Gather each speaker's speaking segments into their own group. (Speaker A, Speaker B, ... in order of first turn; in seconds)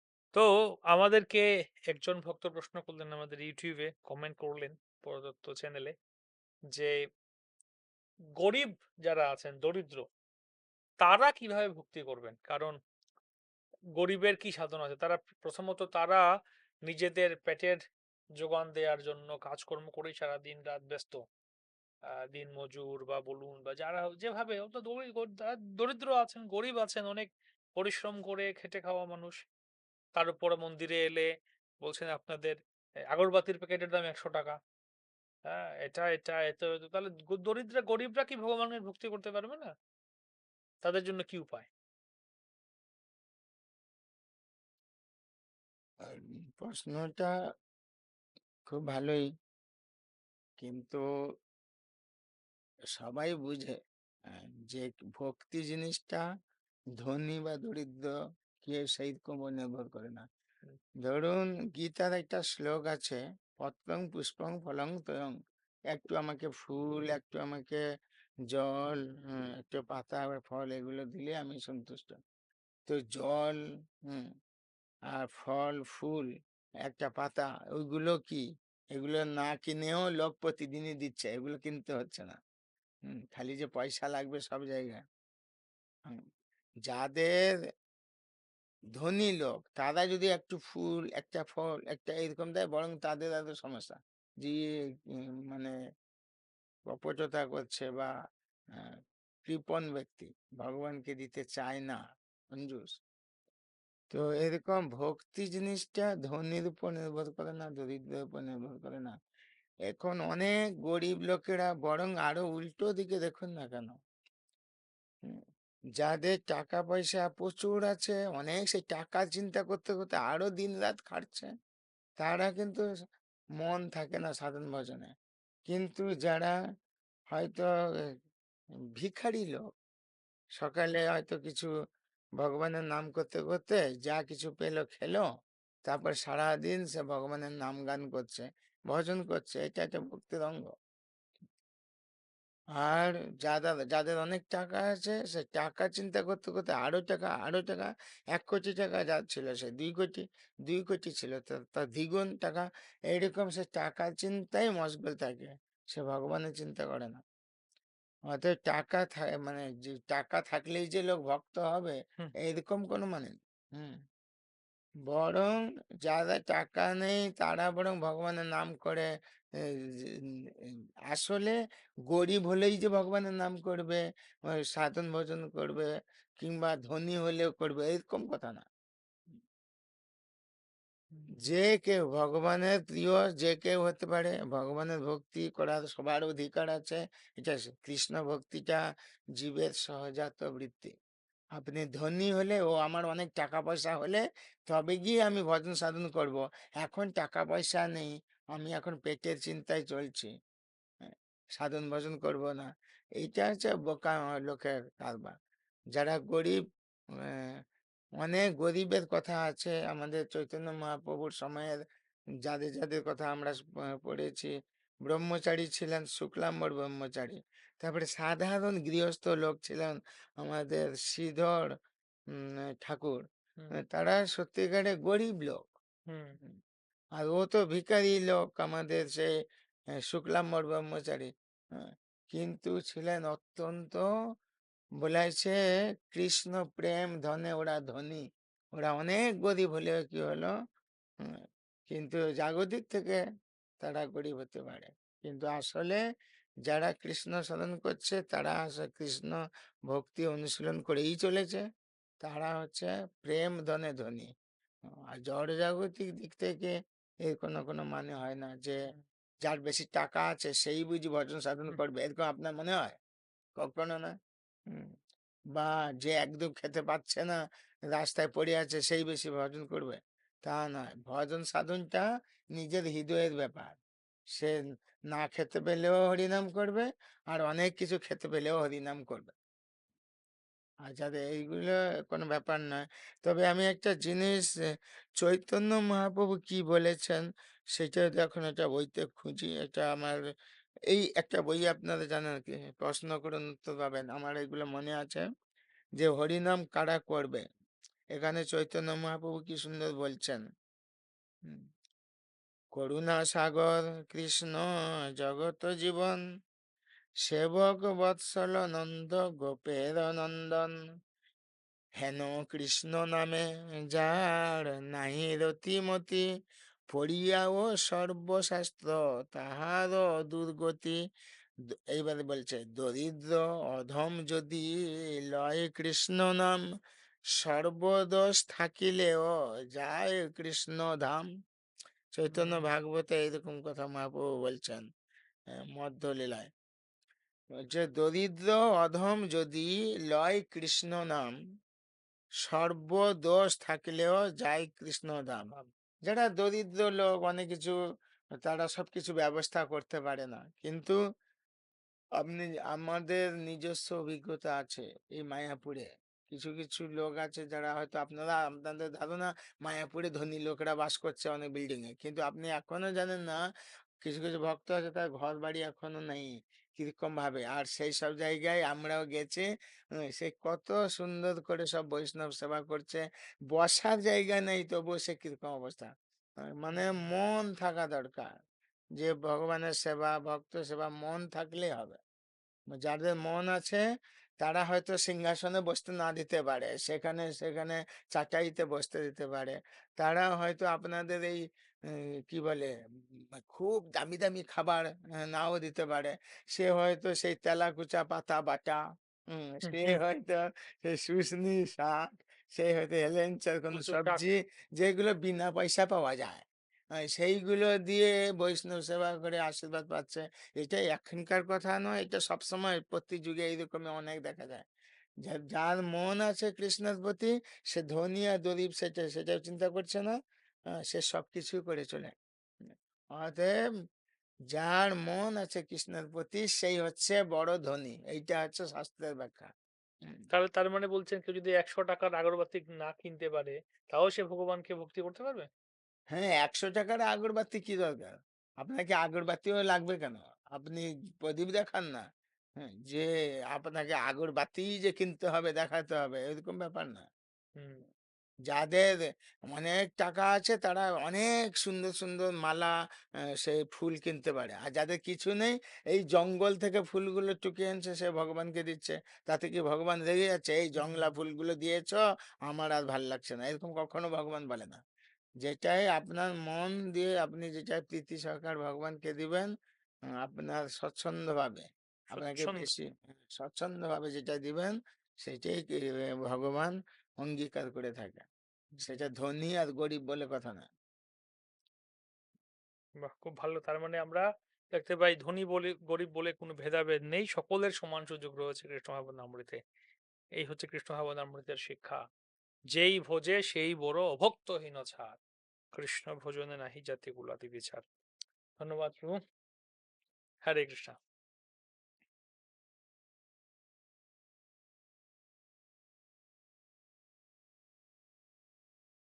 Speaker A: 0.3-5.9, 8.4-10.0, 11.0-12.8, 14.0-16.3, 16.9-17.8, 18.4-21.2, 22.2-29.4, 30.2-31.3, 31.8-32.6, 33.1-34.6, 35.5-39.7, 40.8-41.7, 226.1-226.4, 332.3-332.7, 376.7-377.1, 399.7-400.0, 403.7-404.2, 430.3-435.5, 447.6-447.8, 460.8-461.1, 472.1-472.7, 478.7-479.1, 483.0-489.6, 490.4-492.0, 492.7-495.2, 495.8-497.9, 498.6-499.2, 500.5-500.9
Speaker B: 46.1-47.3, 48.7-49.3, 50.6-51.0, 53.0-53.8, 54.3-56.2, 57.0-60.2, 61.0-65.3, 65.9-67.8, 68.5-72.2, 72.9-74.3, 75.1-76.3, 76.9-78.4, 79.0-82.3, 83.1-85.0, 86.9-87.3, 89.0-95.7, 96.9-98.1, 99.5-102.0, 102.5-103.0, 104.1-109.1, 109.9-114.0, 116.0-121.5, 122.2-122.8, 123.6-125.1, 125.7-126.5, 127.3-127.7, 129.0-129.6, 130.6-131.7, 132.4-135.2, 135.9-140.7, 142.8-157.2, 158.3-164.0, 165.1-169.1, 169.8-170.1, 171.1-171.6, 172.1-175.9, 176.4-178.7, 181.4-188.8, 189.4-190.9, 191.6-200.3, 201.0-202.7, 203.2-205.3, 205.9-206.6, 208.2-211.8, 212.4-214.5, 215.1-221.7, 222.4-223.2, 223.9-225.7, 227.2-229.3, 230.1-234.1, 235.0-235.6, 236.1-238.2, 238.8-240.5, 241.9-243.2, 243.8-246.0, 246.7-249.4, 249.9-251.6, 252.2-254.3, 255.2-256.7, 257.3-258.8, 259.4-262.9, 263.6-264.1, 265.6-267.3, 267.9-272.0, 272.6-273.8, 275.1-279.3, 280.9-284.5, 285.2-287.2, 287.7-290.2, 290.9-295.2, 296.0-297.4, 298.1-300.4, 302.7-304.6, 305.2-306.2, 307.2-310.7, 312.0-316.2, 316.9-321.0, 321.9-324.7, 325.3-326.6, 327.4-331.3, 332.1-334.8, 335.7-336.5, 337.7-341.3, 342.4-345.5, 346.1-347.7, 348.4-351.0, 352.2-363.4, 364.0-369.5, 370.1-375.9, 376.5-378.3, 379.0-382.0, 382.7-383.8, 384.4-398.8, 399.3-406.4, 407.0-414.7, 415.2-420.1, 420.9-423.5, 424.5-429.5, 436.1-442.0, 442.6-447.1, 448.5-452.7, 453.4-464.8, 465.4-469.5, 470.2-478.3, 478.8-480.7